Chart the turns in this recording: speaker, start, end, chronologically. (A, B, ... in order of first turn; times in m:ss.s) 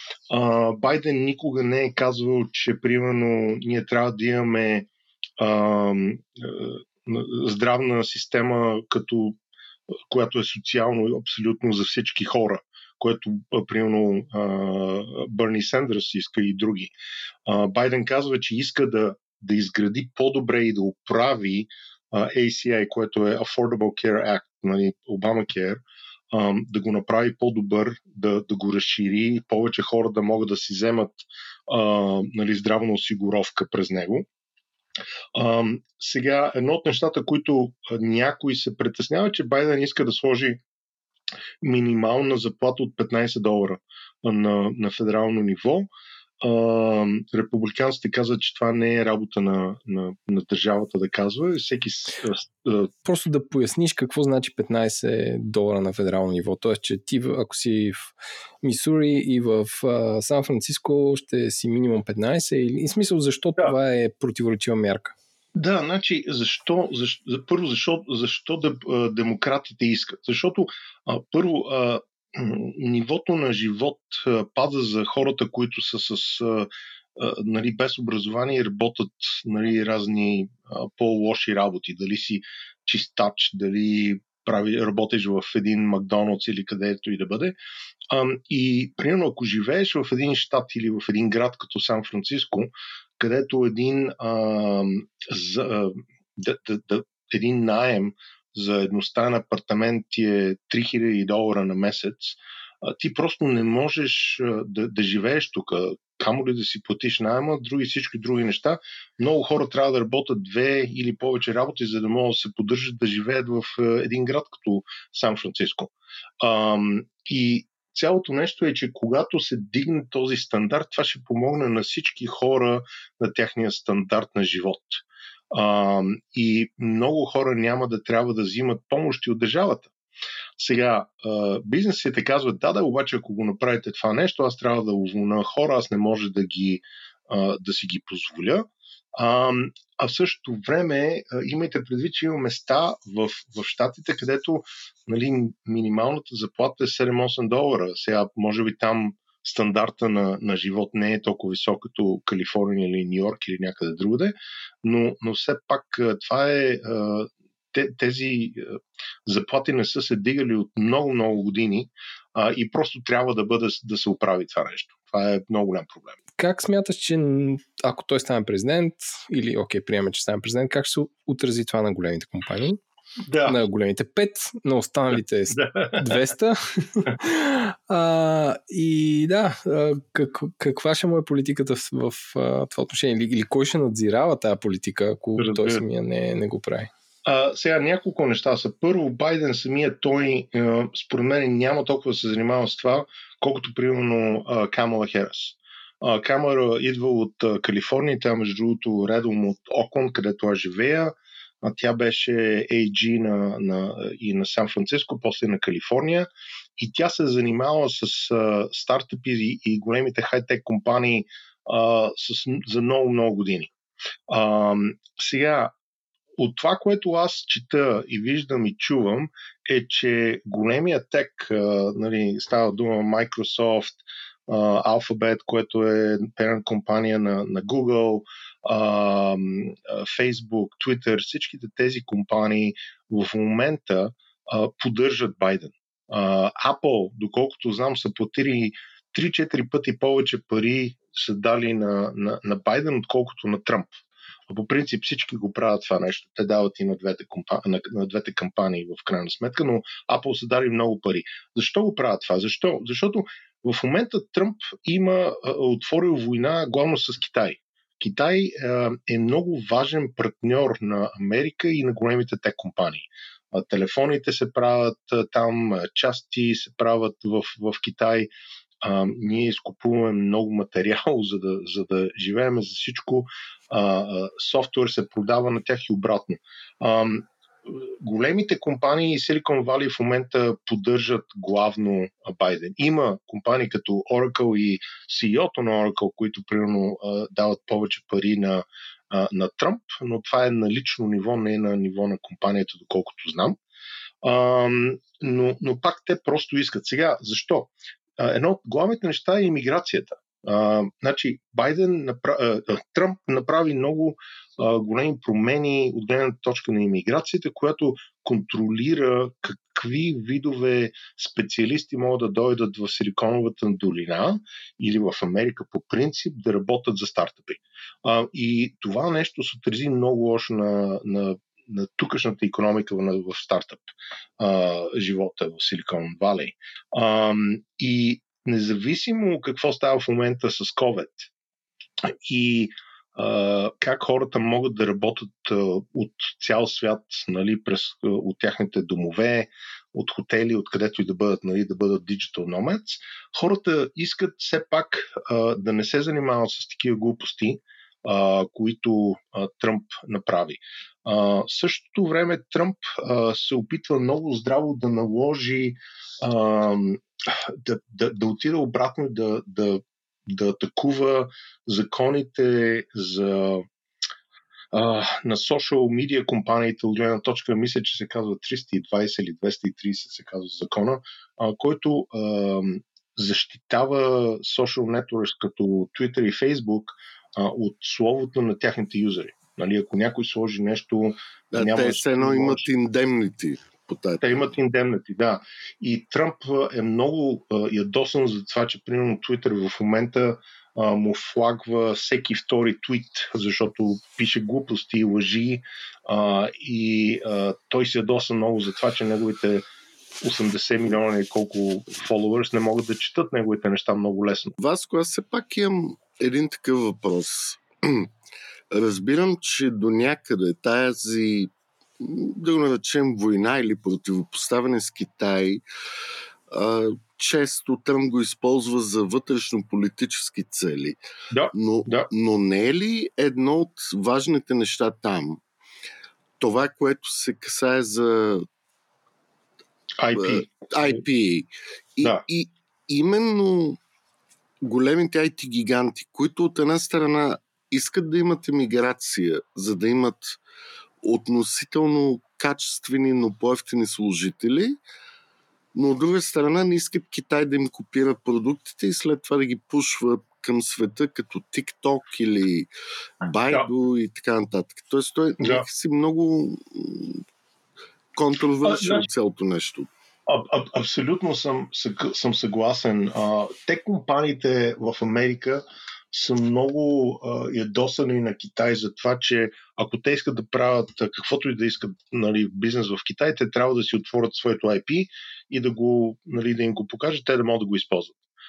0:00.3-0:09.4 A
0:10.1-0:16.9 A
0:17.5-0:34.3 A
0:35.4-0:40.6 A
0:41.6-0:45.9 A
0:46.4-0:52.9 A
0:53.1-1:05.2 B
1:05.6-1:27.6 A
1:28.1-2:09.9 A
2:10.6-2:46.2 A
2:46.4-2:52.8 B
2:53.3-2:53.6 A
2:53.4-3:06.9 B
2:55.5-2:56.0 A
3:05.4-3:05.8 A
3:07.2-3:33.7 A
3:34.3-3:35.7 A
3:36.4-4:28.3 A
4:28.8-4:53.6 A
4:54.2-5:23.9 A
5:24.4-5:31.3 A
5:32.1-6:03.7 A
6:04.7-6:22.6 A
6:21.5-6:24.5 C
6:24.2-6:39.6 A
6:40.2-6:44.6 A
6:44.6-6:48.1 C
6:48.7-6:55.6 C
6:56.5-7:01.0 C
7:01.3-7:02.1 A
7:01.5-7:05.4 C
7:06.4-7:08.5 C
7:10.0-7:11.0 A
7:10.2-7:13.8 C
7:14.6-7:20.4 C
7:21.0-7:24.8 C
7:25.8-7:32.7 C
7:33.2-7:37.2 C
7:35.4-7:35.6 A
7:38.2-7:39.9 C
7:38.6-7:39.1 A
7:40.3-7:58.2 A